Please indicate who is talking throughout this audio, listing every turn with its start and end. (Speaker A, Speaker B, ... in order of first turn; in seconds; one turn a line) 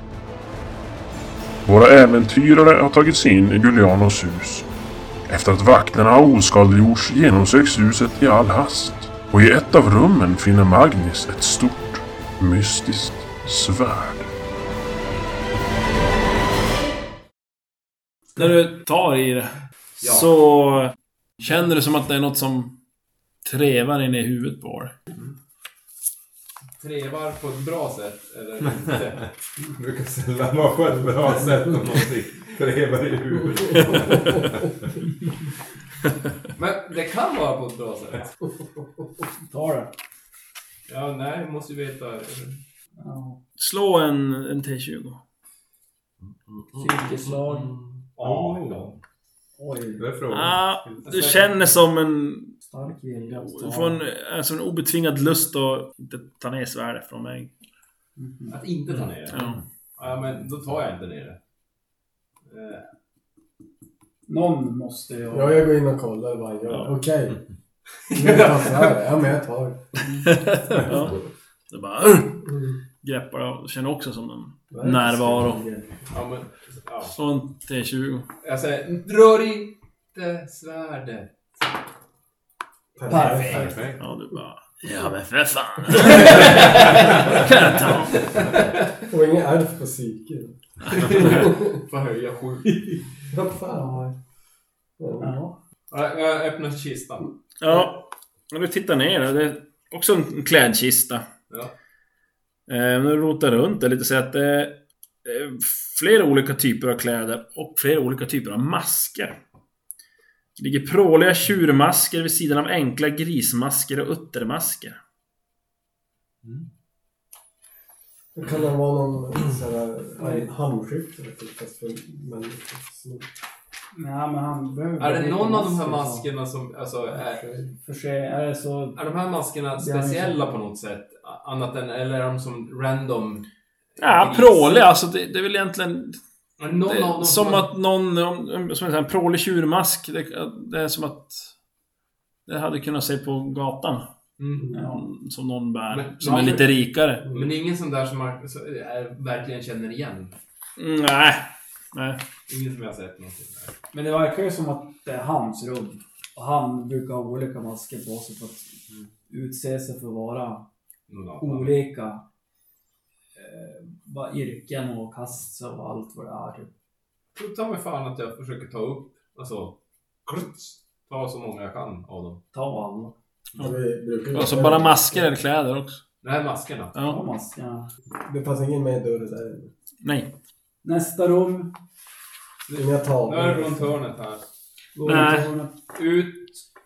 Speaker A: 1.6-4.7
Speaker A: 5.3-14.3
Speaker B: 18.4-22.8
Speaker C: 20.0-20.3
Speaker B: 23.4-25.0
Speaker C: 26.8-29.3
Speaker D: 29.7-35.0
Speaker B: 33.8-34.1
Speaker C: 36.6-38.3
Speaker E: 39.5-39.9
Speaker C: 40.9-42.6
Speaker E: 43.0-43.4
Speaker B: 43.6-45.2
Speaker D: 46.2-49.0
Speaker E: 46.8-47.8
Speaker C: 48.1-48.9
Speaker E: 49.6-50.0
Speaker D: 50.0-51.4
Speaker B: 50.3-52.5
Speaker C: 51.0-51.5
Speaker E: 52.7-54.0
Speaker B: 53.3-57.5
Speaker E: 58.2-58.6
Speaker C: 58.5-61.4
Speaker B: 59.3-59.6
Speaker C: 62.5-62.8
Speaker E: 64.3-65.6
Speaker F: 65.3-67.4
Speaker C: 68.1-68.9
Speaker F: 68.1-69.8
Speaker B: 70.2-71.2
Speaker B: 71.7-72.5
Speaker B: 73.0-75.6
Speaker F: 74.7-76.0
Speaker C: 76.1-77.1
Speaker B: 77.0-78.3
Speaker C: 78.4-81.3
Speaker F: 83.0-83.7
Speaker E: 83.1-83.8
Speaker D: 83.5-84.0
Speaker B: 84.0-88.2
Speaker C: 86.4-86.7
Speaker C: 88.1-89.0
Speaker F: 89.0-91.8
Speaker C: 90.9-93.0
Speaker F: 93.3-94.1
Speaker E: 93.7-94.1
Speaker F: 95.0-95.3
Speaker E: 95.2-95.5
Speaker C: 95.9-97.3
Speaker B: 97.6-101.2
Speaker B: 102.7-109.4
Speaker B: 110.6-115.0
Speaker F: 118.3-123.3
Speaker E: 120.2-120.5
Speaker E: 123.9-126.2
Speaker C: 125.0-127.4
Speaker F: 127.1-127.7
Speaker E: 127.8-129.0
Speaker C: 128.9-134.9
Speaker E: 129.8-130.5
Speaker B: 134.0-136.2
Speaker C: 136.6-137.7
Speaker B: 136.8-141.5
Speaker B: 142.5-144.0
Speaker C: 144.4-144.7
Speaker E: 144.7-145.0
Speaker B: 144.8-147.2
Speaker C: 145.9-146.8
Speaker E: 146.3-146.5
Speaker C: 147.3-150.3
Speaker B: 150.8-152.2
Speaker C: 152.5-153.7
Speaker E: 153.9-158.7
Speaker E: 159.3-160.7
Speaker C: 161.1-161.8
Speaker E: 161.4-162.2
Speaker E: 163.3-166.7
Speaker C: 167.3-169.7
Speaker C: 170.3-172.4
Speaker E: 172.5-173.1
Speaker F: 173.6-175.3
Speaker B: 174.3-176.0
Speaker C: 176.2-176.9
Speaker B: 176.9-177.2
Speaker E: 177.0-177.9
Speaker F: 178.2-179.7
Speaker B: 180.0-180.3
Speaker E: 180.8-181.7
Speaker C: 182.7-184.4
Speaker F: 182.7-183.9
Speaker E: 184.9-185.7
Speaker B: 185.0-185.5
Speaker C: 185.9-186.6